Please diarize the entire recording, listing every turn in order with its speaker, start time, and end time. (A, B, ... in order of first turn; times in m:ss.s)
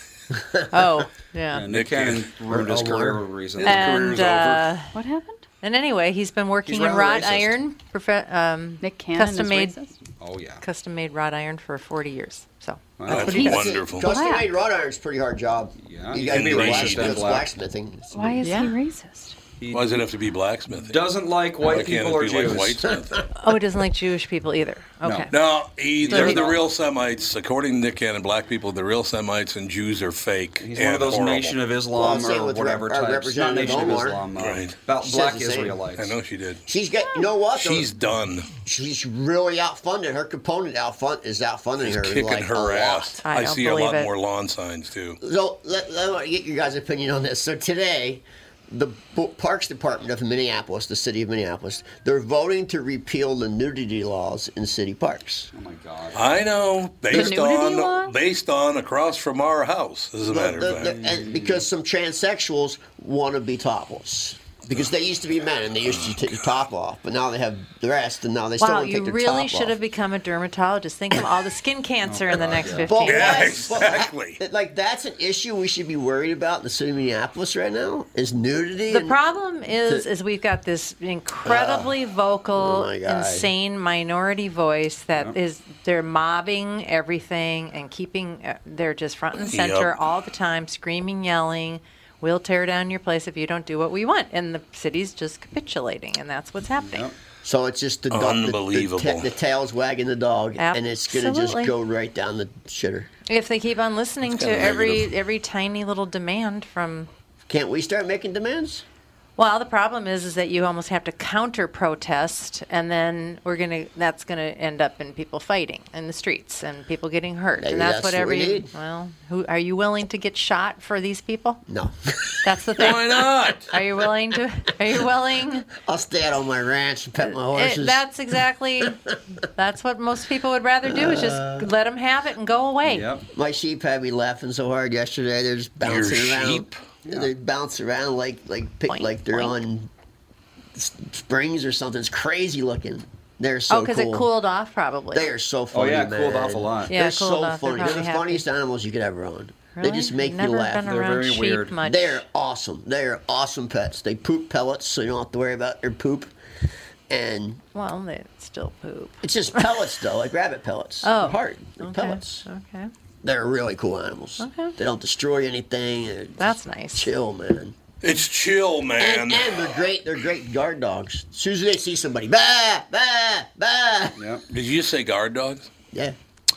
0:00.7-0:01.6 A
0:01.5-0:04.3 B
0:01.7-0:02.3 C
0:02.5-0:03.2 D
0:03.6-0:04.9 A
0:03.6-0:04.7 C
0:04.9-0:05.4 E
0:05.6-0:09.8 A
0:06.6-0:07.5 B
0:08.8-0:10.0 E
0:10.2-0:10.6 B
0:10.6-0:13.6 A
0:13.0-0:13.4 B
0:13.1-0:14.1 C
0:13.1-0:18.5 D
0:14.0-0:14.5 E
0:15.8-0:17.5 B
0:16.3-0:17.3 C
0:18.1-0:19.4 E
0:18.4-0:18.8 A
0:19.6-0:20.0 B
0:19.7-0:21.1 C
0:20.8-0:22.9 B
0:21.6-0:23.2 C
0:23.4-0:25.3 A
0:25.0-0:25.3 B
0:25.3-0:31.6 C
0:26.0-0:26.6 B
0:26.1-0:26.5 A
0:30.6-0:36.2 B
0:31.9-0:34.2 D
0:34.4-0:34.8 C
0:35.0-0:35.8 D
0:36.0-0:36.6 C
0:36.7-0:37.9 D
0:37.5-0:38.5 C
0:38.6-0:43.1 D
0:41.8-0:45.2 C
0:43.2-0:44.1 A
0:45.2-0:55.5 D
0:55.5-0:56.2 B
0:56.1-1:00.9 C
0:57.1-0:57.8 E
0:57.1-0:58.1 A
1:00.2-1:09.8 D
1:00.8-1:01.6 B
1:08.6-1:13.6 A
1:12.0-1:12.9 B
1:12.8-1:19.2 D
1:13.0-1:14.4 C
1:18.9-1:37.1 A
1:21.4-1:21.9 D
1:22.6-1:23.5 D
1:29.5-1:29.9 C
1:36.8-1:37.1 B
1:37.4-1:43.1 D
1:38.1-1:39.3 C
1:40.6-1:41.7 A
1:43.3-1:47.1 A
1:44.2-1:45.1 C
1:47.5-1:48.8 D
1:49.4-2:01.6 A
1:57.6-1:58.7 D
2:01.7-2:02.4 D
2:02.4-2:03.0 A
2:02.8-2:03.7 C
2:03.7-2:05.7 A
2:05.8-2:08.0 D
2:07.2-2:09.0 A
2:09.5-2:13.1 A
2:10.8-2:11.7 D
2:12.8-2:13.2 B
2:13.3-2:19.9 D
2:15.8-2:16.8 C
2:18.9-2:19.6 A
2:20.7-2:24.3 D
2:23.7-2:25.3 A
2:25.1-2:30.8 D
2:25.7-2:26.9 B
2:26.9-2:28.4 A
2:29.8-2:32.2 A
2:30.8-2:31.8 B
2:31.8-2:36.3 D
2:37.1-2:37.6 D
2:37.7-2:39.8 A
2:39.2-2:42.4 D
2:41.0-2:42.9 A
2:43.2-2:47.8 D
2:44.4-2:44.7 A
2:46.4-2:47.1 A
2:48.0-2:49.8 C
2:49.0-2:54.2 D
2:54.2-2:54.4 B
2:54.5-2:55.7 C